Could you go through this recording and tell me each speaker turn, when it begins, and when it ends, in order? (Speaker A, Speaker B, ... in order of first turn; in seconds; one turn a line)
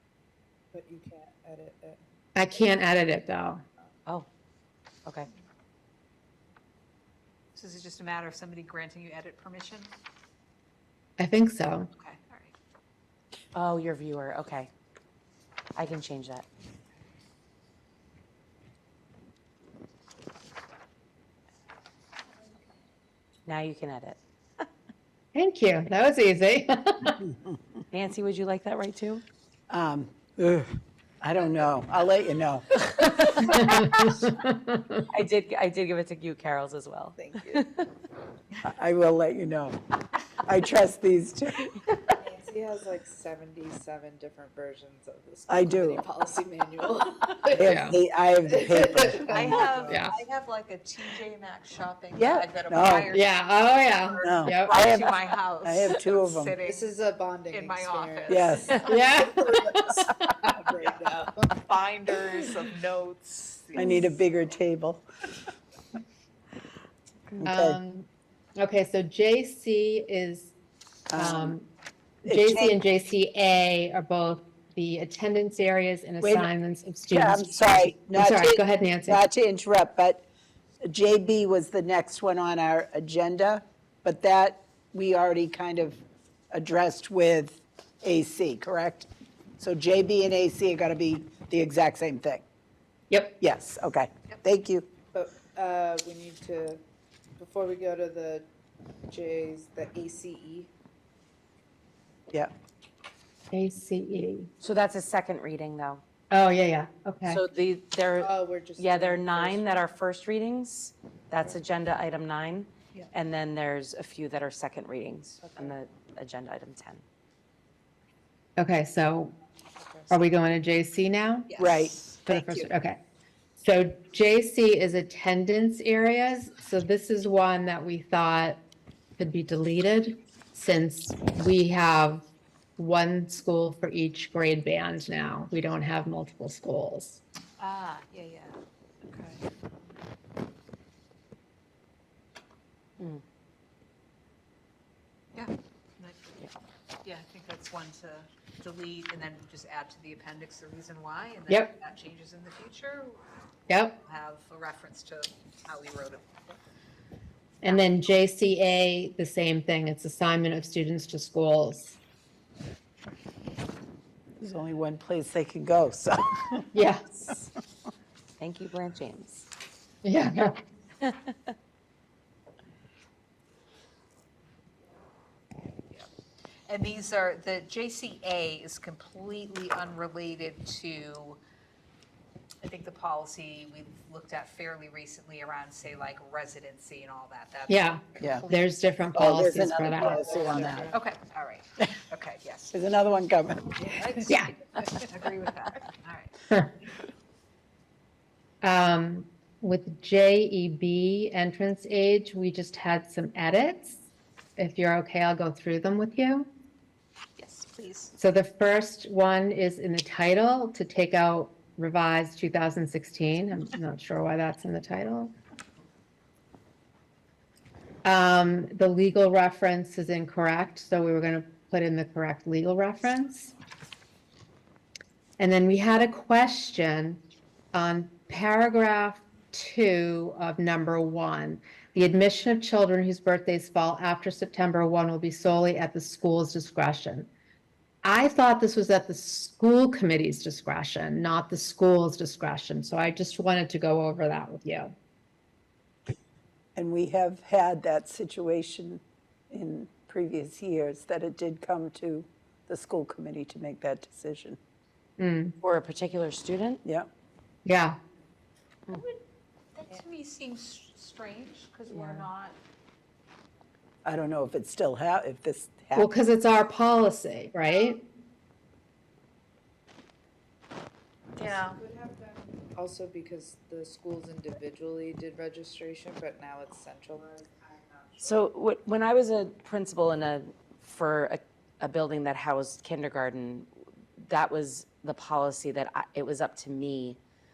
Speaker A: 0.7-2.0
Speaker B: 2.4-3.6
Speaker C: 7.5-9.9
Speaker B: 11.2-11.9
Speaker C: 11.9-12.5
Speaker D: 13.6-14.7
Speaker D: 15.8-16.5
Speaker D: 23.5-24.2
Speaker B: 25.3-27.3
Speaker D: 27.9-29.2
Speaker E: 29.7-30.7
Speaker E: 31.2-32.7
Speaker D: 32.8-34.0
Speaker B: 33.5-35.0
Speaker D: 35.1-37.9
Speaker A: 37.2-37.7
Speaker E: 38.7-39.8
Speaker E: 40.5-41.7
Speaker A: 42.2-47.9
Speaker E: 45.5-46.0
Speaker B: 47.5-48.0
Speaker E: 47.5-49.9
Speaker A: 48.4-50.0
Speaker C: 49.2-56.9
Speaker B: 49.9-50.1
Speaker E: 52.2-53.1
Speaker B: 53.1-54.8
Speaker E: 54.2-56.6
Speaker A: 56.6-61.7
Speaker C: 57.5-59.0
Speaker E: 58.3-58.7
Speaker B: 58.9-60.1
Speaker C: 60.8-64.1
Speaker A: 63.8-64.2
Speaker E: 63.8-65.0
Speaker E: 67.4-67.8
Speaker B: 67.4-70.5
Speaker E: 71.1-71.6
Speaker B: 71.1-71.7
Speaker E: 72.2-72.7
Speaker B: 72.2-79.2
Speaker E: 76.2-76.5
Speaker E: 77.1-80.2
Speaker E: 80.9-86.0
Speaker E: 86.5-89.1
Speaker E: 89.6-92.4
Speaker E: 93.4-94.9
Speaker A: 95.1-96.8
Speaker A: 97.4-98.5
Speaker A: 99.1-100.7
Speaker B: 103.5-104.5
Speaker D: 104.6-106.0
Speaker B: 106.3-107.4
Speaker D: 107.3-117.0
Speaker A: 108.2-109.8
Speaker A: 115.4-115.8
Speaker B: 118.6-119.3
Speaker A: 119.8-120.1
Speaker B: 120.1-121.5
Speaker C: 121.5-122.7
Speaker E: 121.6-122.0
Speaker B: 122.3-123.0
Speaker B: 123.6-128.6
Speaker B: 129.2-132.3
Speaker B: 132.8-137.2
Speaker C: 137.6-139.5
Speaker C: 145.3-146.4
Speaker C: 147.0-153.2
Speaker B: 153.7-154.0
Speaker C: 154.0-156.6
Speaker B: 157.6-162.0
Speaker C: 157.6-157.9
Speaker E: 164.4-166.7
Speaker B: 166.7-167.3
Speaker D: 168.4-169.5
Speaker B: 170.0-170.6
Speaker D: 171.0-171.5
Speaker C: 176.7-181.4
Speaker C: 182.6-188.5
Speaker B: 187.7-190.5
Speaker E: 188.2-188.5
Speaker E: 189.1-190.9
Speaker A: 189.6-190.9
Speaker C: 190.5-192.8
Speaker E: 192.7-193.8
Speaker C: 193.8-196.3
Speaker B: 194.3-194.5
Speaker B: 198.6-204.0
Speaker B: 204.6-206.5
Speaker C: 207.4-208.1
Speaker B: 208.2-215.3
Speaker B: 218.1-223.5
Speaker B: 225.4-227.2
Speaker B: 227.7-237.3
Speaker B: 238.0-244.9
Speaker E: 246.8-254.6
Speaker B: 255.2-255.6
Speaker D: 255.6-256.8
Speaker B: 257.6-258.0
Speaker C: 258.9-259.2
Speaker C: 259.8-262.6
Speaker D: 261.9-262.2
Speaker E: 264.1-266.1
Speaker B: 265.9-268.0
Speaker C: 271.4-271.8
Speaker A: 271.4-278.4
Speaker D: 278.2-287.2